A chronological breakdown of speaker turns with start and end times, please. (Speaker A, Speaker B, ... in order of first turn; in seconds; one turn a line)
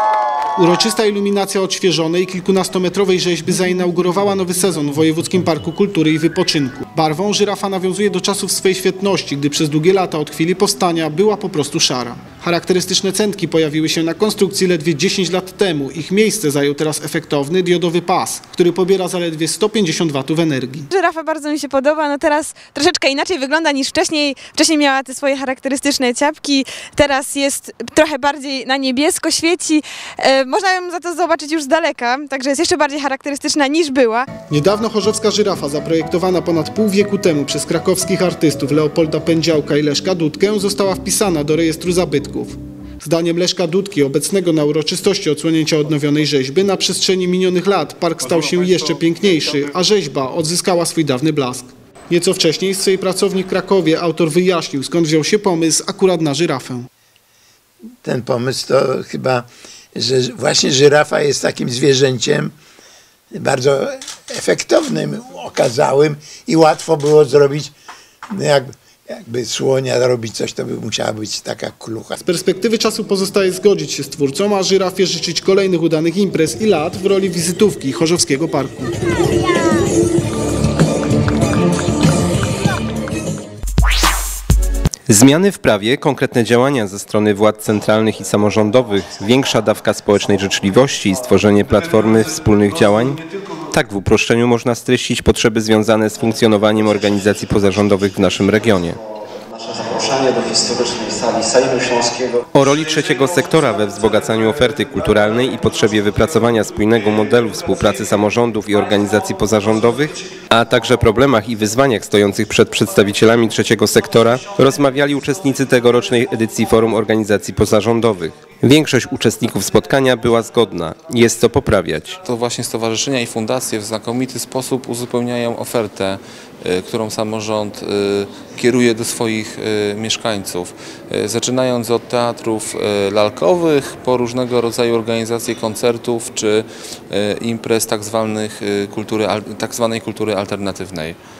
Speaker A: 0.6-20.9
Speaker B: 20.9-34.4
Speaker A: 34.5-56.9
Speaker C: 58.0-62.5
Speaker C: 63.3-67.7
Speaker C: 68.3-72.2
Speaker A: 72.2-78.9
Speaker D: 85.1-99.0
Speaker E: 99.5-102.4
Speaker D: 102.5-122.2
Speaker F: 122.2-141.2